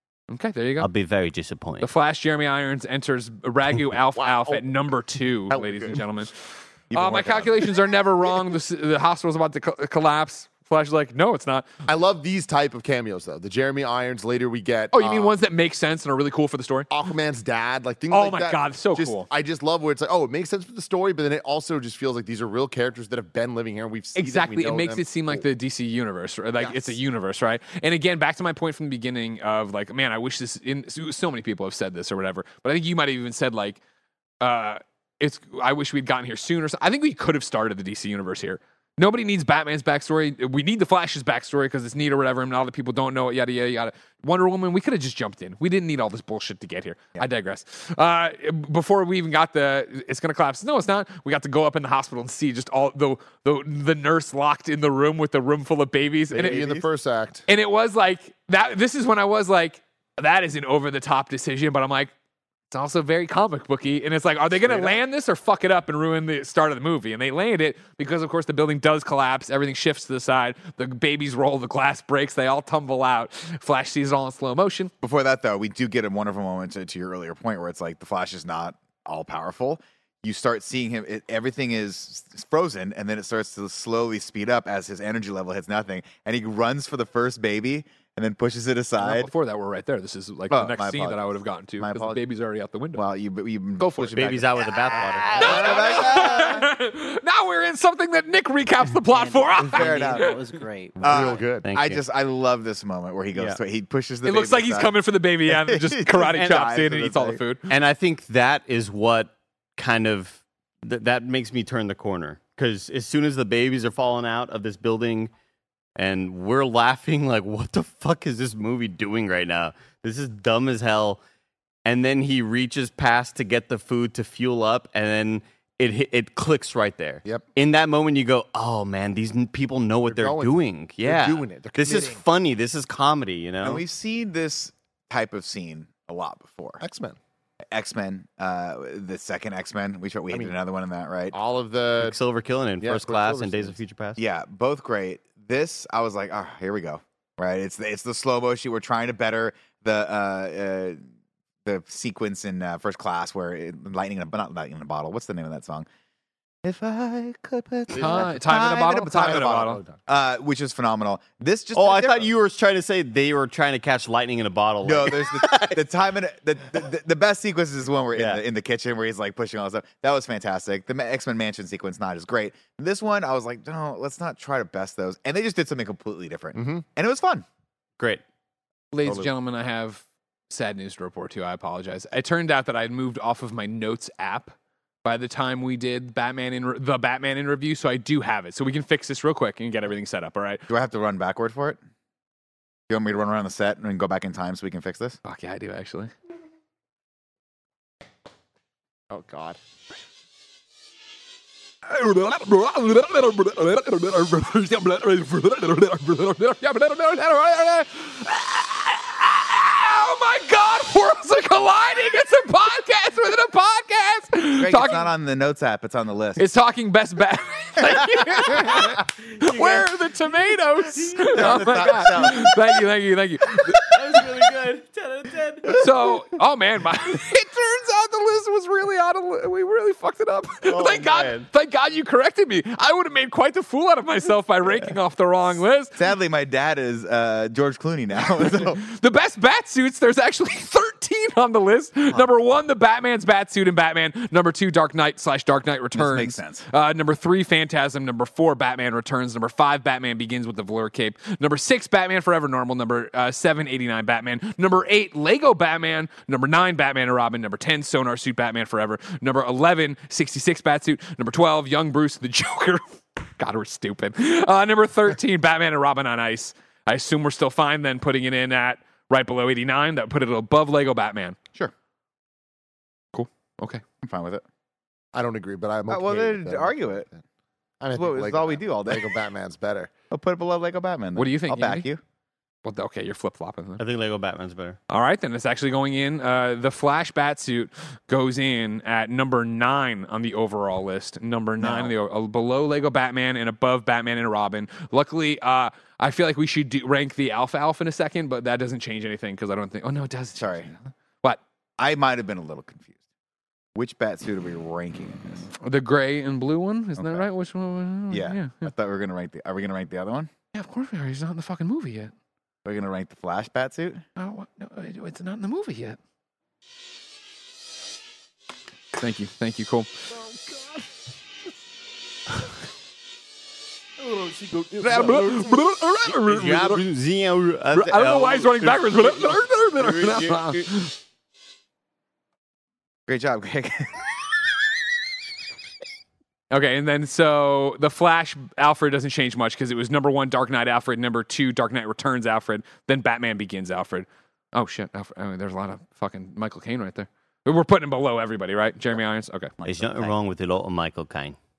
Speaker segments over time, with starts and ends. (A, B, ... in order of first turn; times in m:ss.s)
0:00.3-0:00.9 A
0:00.8-0:01.9 B
0:01.8-0:11.7 A
0:04.2-0:04.6 C
0:05.5-0:06.0 C
0:06.9-0:07.7 D
0:11.9-0:15.4 C
0:14.9-0:16.9 A
0:16.9-0:25.4 C
0:18.1-0:19.3 A
0:24.2-0:33.8 A
0:26.6-0:27.0 C
0:34.4-0:56.7 A
0:56.3-0:57.4 C
0:56.3-0:56.9 D
0:57.5-1:02.1 A
1:02.7-1:14.9 A
1:15.0-1:29.3 D
1:29.0-1:33.0 A
1:30.5-1:32.2 D
1:32.9-1:36.7 D
1:33.8-1:34.2 A
1:34.1-1:35.8 B
1:35.3-1:40.4 A
1:39.1-1:41.4 E
1:39.7-1:40.3 D
1:41.0-1:44.9 D
1:41.0-1:41.7 C
1:41.6-1:42.0 B
1:43.3-1:43.6 B
1:44.2-1:47.7 A
1:45.5-1:47.4 D
1:46.3-1:46.6 B
1:47.7-1:55.3 B
1:56.0-2:01.2 B
2:01.8-2:13.8 B
2:10.1-2:12.2 C
2:13.6-2:16.8 D
2:16.8-2:17.2 C
2:17.7-2:21.4 D
2:21.3-2:22.2 C
2:22.0-2:24.2 B
2:22.8-2:23.8 C
2:24.2-2:31.1 D
2:31.6-2:35.9 D
2:36.6-2:42.3 D
2:37.9-2:38.3 C
2:38.0-2:39.8 A
2:39.3-2:40.0 C
2:41.7-2:45.8 B
2:44.8-2:57.4 D
2:48.1-2:48.4 B
2:56.5-2:56.8 C
2:58.9-3:10.6 A
2:59.0-2:59.3 D
3:10.7-3:11.8 D
3:12.9-3:15.2 D
3:15.2-3:16.1 A
3:19.1-3:19.6 C
3:21.8-3:35.1 A
3:34.6-3:36.4 D
3:36.4-3:43.8 A
3:38.0-3:38.6 D
3:39.3-3:42.3 E
3:41.2-3:42.6 D
3:43.8-3:45.9 E
3:45.8-3:56.0 A
3:50.6-3:51.4 B
3:54.6-3:54.9 D
3:55.9-3:58.8 D
3:58.5-4:31.4 A
4:05.9-4:06.6 D
4:33.1-4:33.8 A
4:34.0-4:34.4 D
4:35.1-4:37.2 C
4:35.9-4:37.1 D
4:37.8-4:39.9 C
4:37.9-4:39.1 D
4:40.1-4:42.0 D
4:41.2-4:41.9 A
4:42.6-4:43.8 A
4:43.8-4:44.8 B
4:44.9-5:01.4 A
4:51.6-4:51.9 D
5:00.4-5:00.7 D
5:01.8-5:02.9 D
5:03.7-5:05.5 D
5:05.6-5:08.7 A
5:07.0-5:07.2 D
5:08.1-5:10.3 D
5:10.5-5:12.1 A
5:12.6-5:14.0 D
5:14.2-5:16.0 A
5:19.0-5:19.9 A
5:20.1-5:20.8 C
5:24.0-5:25.6 E
5:24.8-5:26.8 A
5:26.2-5:30.6 B
5:27.7-5:31.0 A
5:33.1-5:34.1 D
5:36.5-5:49.5 A
5:49.6-5:50.1 D
5:49.6-5:51.4 B